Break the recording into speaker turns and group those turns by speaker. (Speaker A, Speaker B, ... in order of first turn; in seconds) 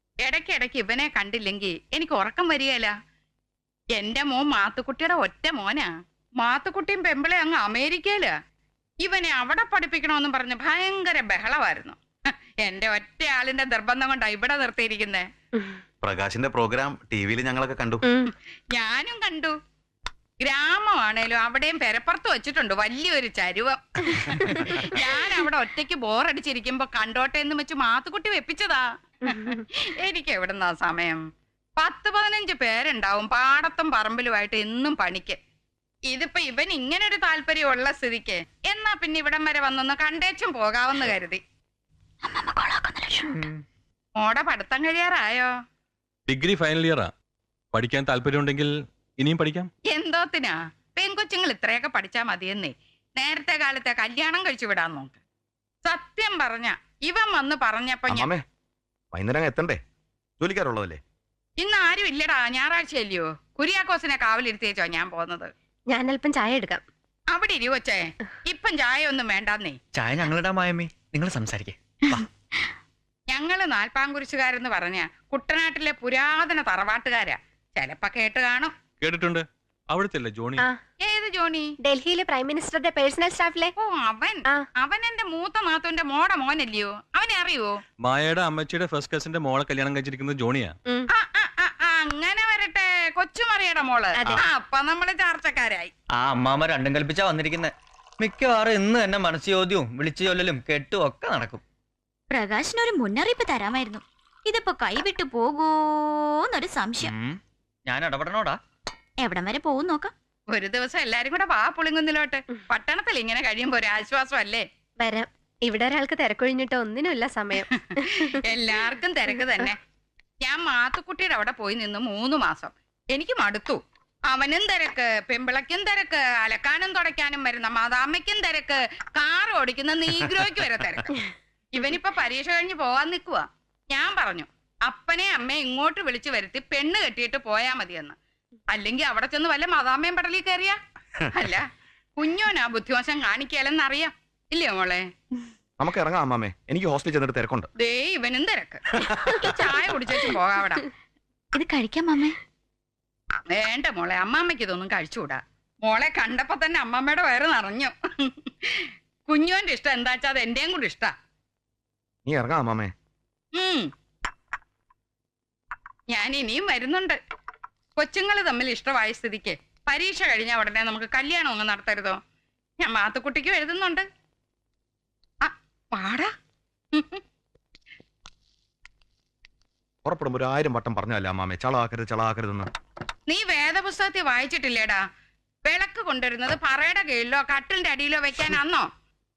Speaker A: 0.2-2.9, 4.0-5.9, 6.4-8.3, 9.0-12.0, 12.6-15.3, 18.7-19.5, 20.4-28.9, 29.8-31.2, 31.8-35.4, 36.1-41.4, 44.2-45.5, 49.9-55.2, 55.9-58.3, 61.6-65.5, 67.3-69.8, 73.3-78.7, 81.0-81.7, 83.8-87.8, 91.1-95.9, 110.5-114.6, 118.0-119.8, 120.4-131.1, 131.7-138.2, 138.7-140.8, 141.3-141.7, 142.2-145.1, 147.8-150.8, 153.5-161.1, 163.6-163.9, 166.1-167.2, 168.0-172.2, 172.8-174.1, 175.4-176.3, 176.9-177.2, 183.3-185.0, 185.7-188.9
Speaker B: 16.0-18.0, 70.0-72.2, 96.2-101.6, 107.2-108.6
Speaker C: 18.0-18.3, 24.2-25.3, 29.3-29.6, 65.9-66.8, 81.8-83.7, 94.2-94.4, 115.0-119.7
Speaker D: 42.2-43.5, 102.3-107.1, 109.2-110.1, 151.5-152.4
Speaker E: 46.3-47.1, 47.7-49.7, 79.0-80.7, 88.0-90.8
Speaker F: 58.1-58.4, 59.1-59.8, 60.4-61.0, 145.8-147.7, 149.1-149.5, 162.3-162.9, 180.1-182.7